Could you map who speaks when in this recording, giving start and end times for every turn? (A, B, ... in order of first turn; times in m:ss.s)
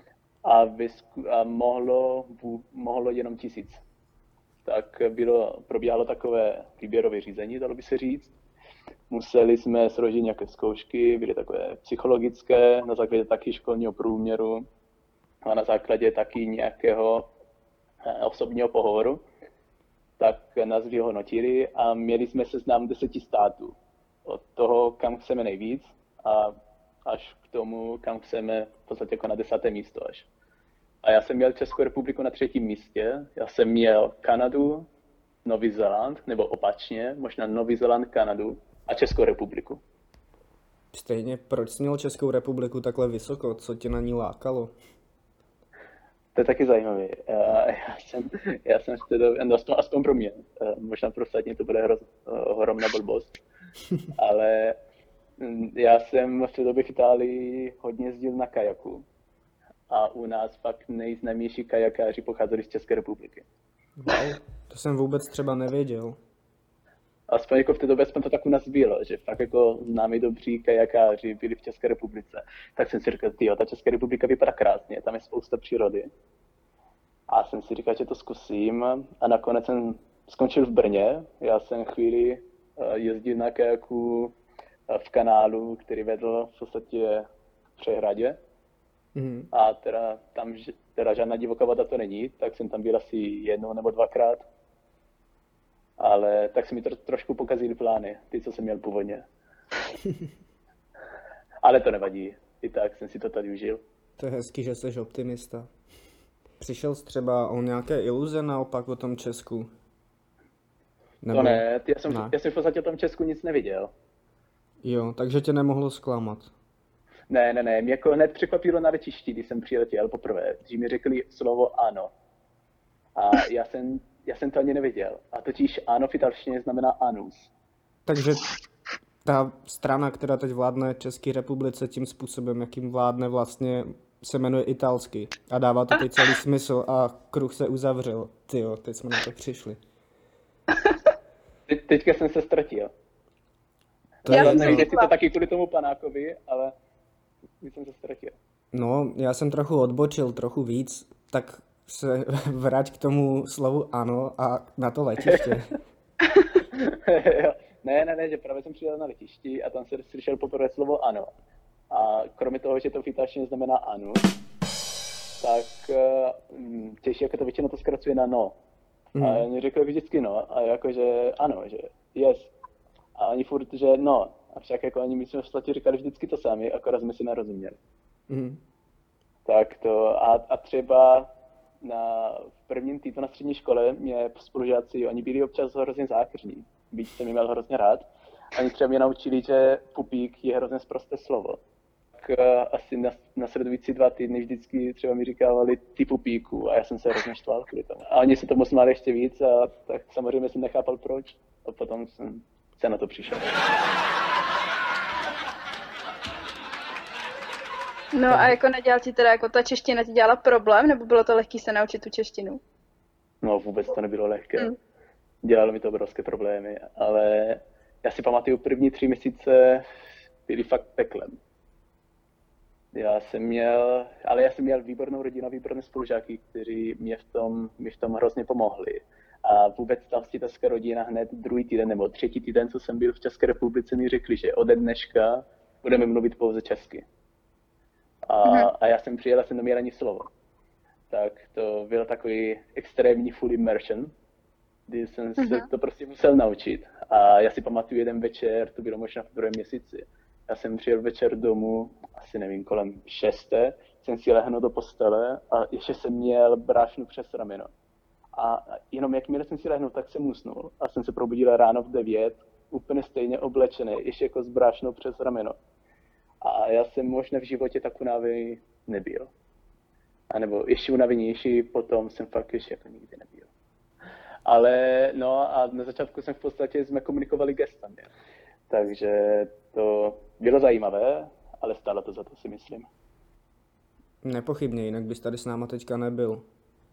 0:00.4-0:03.8 A
0:04.6-0:08.3 A
0:09.1-0:14.7 A
0:15.4-0:17.3 A
0:18.0-0:19.2 A
0:20.2-0:30.3 A
0:31.0-0:34.9 A
0:35.4-0:39.8 A
0:40.9-0:44.7 B
0:46.4-0:53.4 A
0:54.1-0:54.8 A
0:55.4-0:59.1 A
0:59.9-1:03.5 A
1:04.0-1:06.2 B
1:07.3-1:16.1 A
1:17.3-1:24.4 A
1:24.9-1:28.4 A
1:29.2-1:29.5 B
1:29.5-1:34.4 A
1:36.0-1:39.2 A
1:41.6-1:43.8 A
1:44.2-1:45.7 B
1:46.6-1:49.7 B
1:51.2-1:52.3 B
1:51.3-1:53.9 A
1:54.8-1:56.5 B
1:57.3-2:02.1 A
2:03.2-2:07.5 A
2:08.1-2:08.5 B
2:09.2-2:19.8 B
2:21.7-2:22.9 A
2:24.2-2:26.7 A
2:24.3-2:24.8 B
2:24.3-2:25.1 C
2:27.6-2:28.4 A
2:28.7-2:35.8 B
2:36.7-2:41.3 A
2:41.9-2:44.3 A
2:45.4-2:48.6 A
2:49.1-2:49.4 B
2:49.2-2:52.5 A
2:53.2-2:57.8 A
2:58.3-2:58.6 B
2:59.5-3:11.6 A
3:12.2-3:23.5 A
3:28.1-3:32.6 C
3:28.3-3:28.6 B
3:33.4-3:34.7 A
3:35.4-3:39.9 A
3:40.5-3:41.4 A
3:42.9-3:57.1 A
3:58.3-4:00.3 A
3:58.4-3:58.7 C
4:01.1-4:04.1 A
4:04.9-4:17.7 A
4:05.4-4:05.7 C
4:18.4-4:25.6 A
4:26.4-4:29.3 A
4:30.3-4:33.5 A
4:34.5-4:38.1 A
4:38.7-4:42.9 A
4:44.2-4:46.5 B